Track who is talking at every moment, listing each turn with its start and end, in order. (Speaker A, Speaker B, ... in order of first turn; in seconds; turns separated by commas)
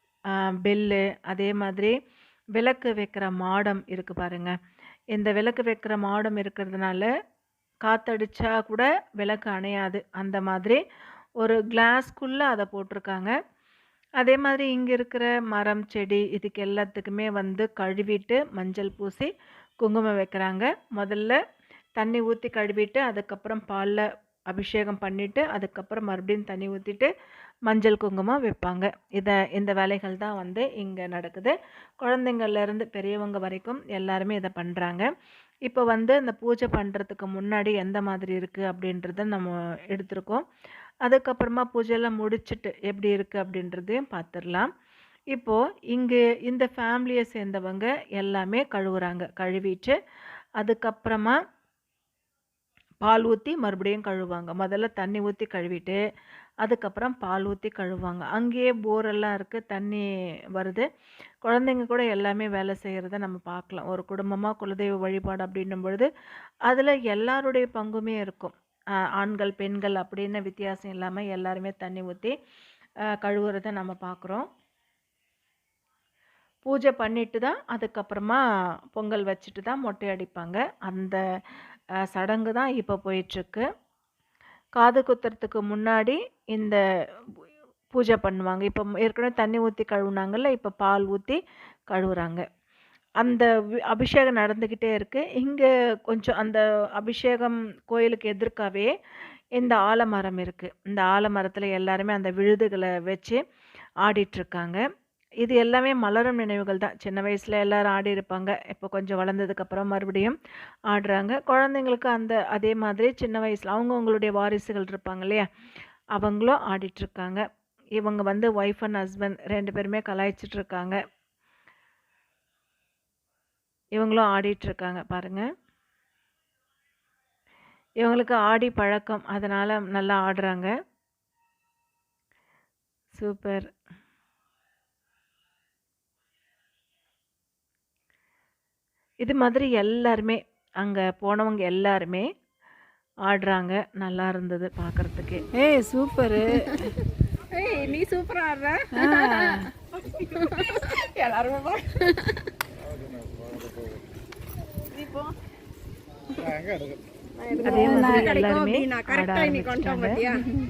Speaker A: 0.5-1.9, Speaker A: 2.6-4.6, Speaker A: 5.1-7.1, Speaker A: 7.9-10.8, Speaker A: 11.4-13.3, Speaker A: 14.2-19.3, Speaker A: 19.8-21.4, Speaker A: 22.0-27.1, Speaker A: 27.7-35.1, Speaker A: 35.7-40.4, Speaker A: 41.0-44.7, Speaker A: 45.3-50.0, Speaker A: 50.6-51.4, Speaker A: 53.0-56.0, Speaker A: 56.6-60.9, Speaker A: 61.5-66.1, Speaker A: 66.7-68.5, Speaker A: 69.2-72.3, Speaker A: 73.2-74.5, Speaker A: 76.7-78.4, Speaker A: 79.0-81.2, Speaker A: 82.1-83.7, Speaker A: 84.8-86.8, Speaker A: 87.9-91.4, Speaker A: 91.9-92.5, Speaker A: 93.2-98.9, Speaker A: 99.6-103.4, Speaker A: 104.0-104.8, Speaker A: 105.4-110.4, Speaker A: 110.9-115.5, Speaker A: 116.2-117.5, Speaker A: 118.0-121.0, Speaker A: 124.0-125.5, Speaker A: 128.0-130.7, Speaker A: 133.1-133.7, Speaker A: 139.2-142.3, Speaker A: 143.3-145.6, Speaker B: 145.6-146.3, Speaker C: 147.5-149.6, Speaker B: 148.9-149.6, Speaker C: 150.2-152.3, Speaker C: 157.4-160.4, Speaker A: 157.7-160.2, Speaker B: 157.7-158.3